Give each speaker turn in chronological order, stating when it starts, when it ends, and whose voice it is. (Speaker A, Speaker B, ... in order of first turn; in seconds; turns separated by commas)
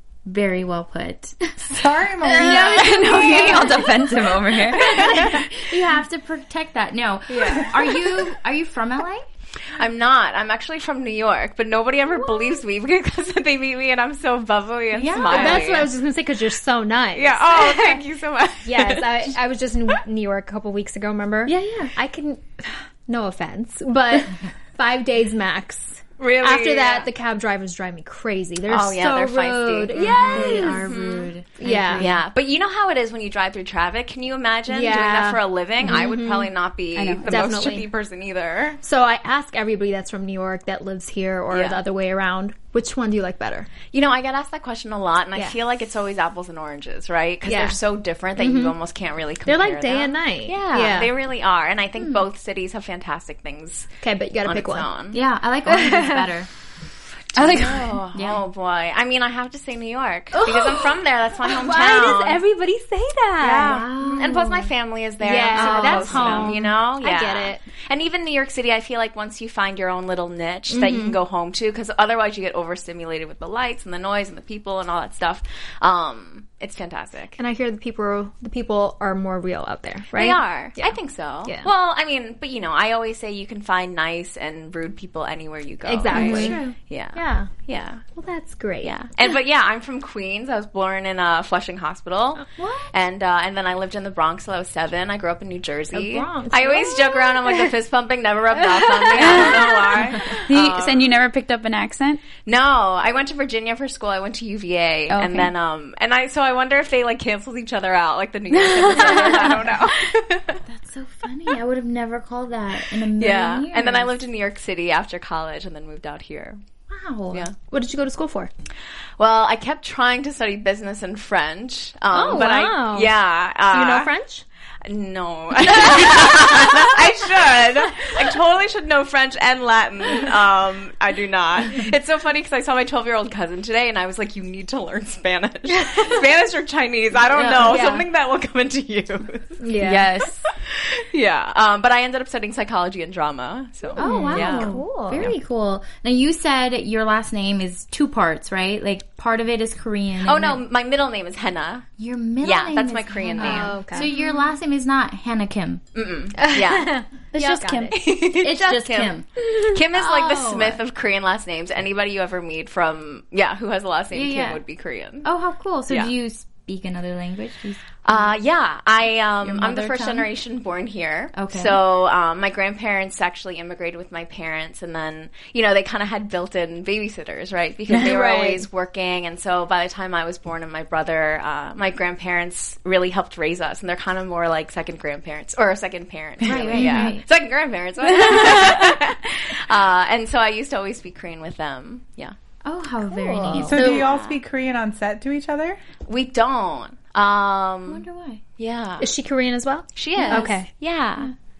Speaker A: 0.2-9.2, Speaker B: 1.7-3.6, Speaker C: 2.4-3.7, Speaker D: 2.6-4.9, Speaker C: 4.8-5.4, Speaker C: 7.3-7.8, Speaker C: 9.8-15.9, Speaker A: 14.9-15.7, Speaker E: 15.3-18.0, Speaker C: 17.1-19.3, Speaker E: 18.6-30.8, Speaker A: 21.4-21.9, Speaker C: 26.2-27.1, Speaker C: 28.7-31.3, Speaker A: 30.3-32.2, Speaker E: 31.6-32.0, Speaker C: 32.0-38.8, Speaker E: 34.7-36.5, Speaker D: 37.0-37.3, Speaker E: 37.2-37.9, Speaker E: 38.8-43.7, Speaker C: 41.5-41.8, Speaker C: 43.9-53.9, Speaker E: 47.5-47.8, Speaker E: 48.4-48.7, Speaker E: 49.5-51.1, Speaker A: 52.0-52.2, Speaker E: 54.0-54.9, Speaker C: 54.4-55.2, Speaker A: 55.1-56.5, Speaker E: 55.7-56.3, Speaker C: 57.4-62.4, Speaker A: 57.4-58.4, Speaker D: 57.4-57.8, Speaker E: 60.4-60.8, Speaker E: 61.5-63.9, Speaker C: 63.4-77.4, Speaker A: 63.6-64.7, Speaker E: 65.2-67.6, Speaker A: 65.5-66.7, Speaker E: 70.7-71.2, Speaker E: 77.4-81.7, Speaker C: 80.1-88.0, Speaker E: 85.8-86.6, Speaker A: 86.1-86.7, Speaker E: 87.1-87.5, Speaker E: 88.2-88.9, Speaker C: 88.8-101.0, Speaker E: 92.4-92.9, Speaker E: 95.9-97.7, Speaker E: 98.8-99.9, Speaker D: 99.2-99.8, Speaker D: 100.5-102.2, Speaker C: 102.4-110.6, Speaker D: 105.1-105.5, Speaker D: 108.7-109.3, Speaker A: 110.7-114.2, Speaker C: 113.2-116.6, Speaker A: 116.9-117.5, Speaker E: 117.7-118.5, Speaker C: 119.2-124.1, Speaker E: 122.1-123.1, Speaker E: 123.7-124.4, Speaker C: 124.8-139.6, Speaker A: 137.3-137.8, Speaker E: 137.6-138.1, Speaker E: 139.6-140.1, Speaker D: 139.8-140.4, Speaker C: 140.6-144.8, Speaker E: 143.9-145.3, Speaker A: 143.9-150.6, Speaker C: 150.2-151.8, Speaker A: 152.0-155.8, Speaker C: 152.4-154.3, Speaker E: 153.4-154.1, Speaker C: 155.9-156.9, Speaker E: 156.4-157.9, Speaker D: 157.3-158.0, Speaker C: 157.9-165.3, Speaker A: 158.1-159.3, Speaker A: 159.9-160.8, Speaker A: 164.1-164.6, Speaker A: 165.2-168.2, Speaker C: 168.0-192.3, Speaker A: 169.4-170.3, Speaker A: 171.3-171.8, Speaker E: 177.9-178.6, Speaker A: 186.4-187.2, Speaker E: 186.8-187.1, Speaker A: 192.6-194.1, Speaker E: 193.1-193.8, Speaker B: 193.6-195.8, Speaker C: 193.8-194.4, Speaker C: 196.1-198.1, Speaker A: 197.9-198.4, Speaker C: 198.6-199.1, Speaker E: 199.0-200.7, Speaker C: 199.9-201.3, Speaker A: 200.2-200.5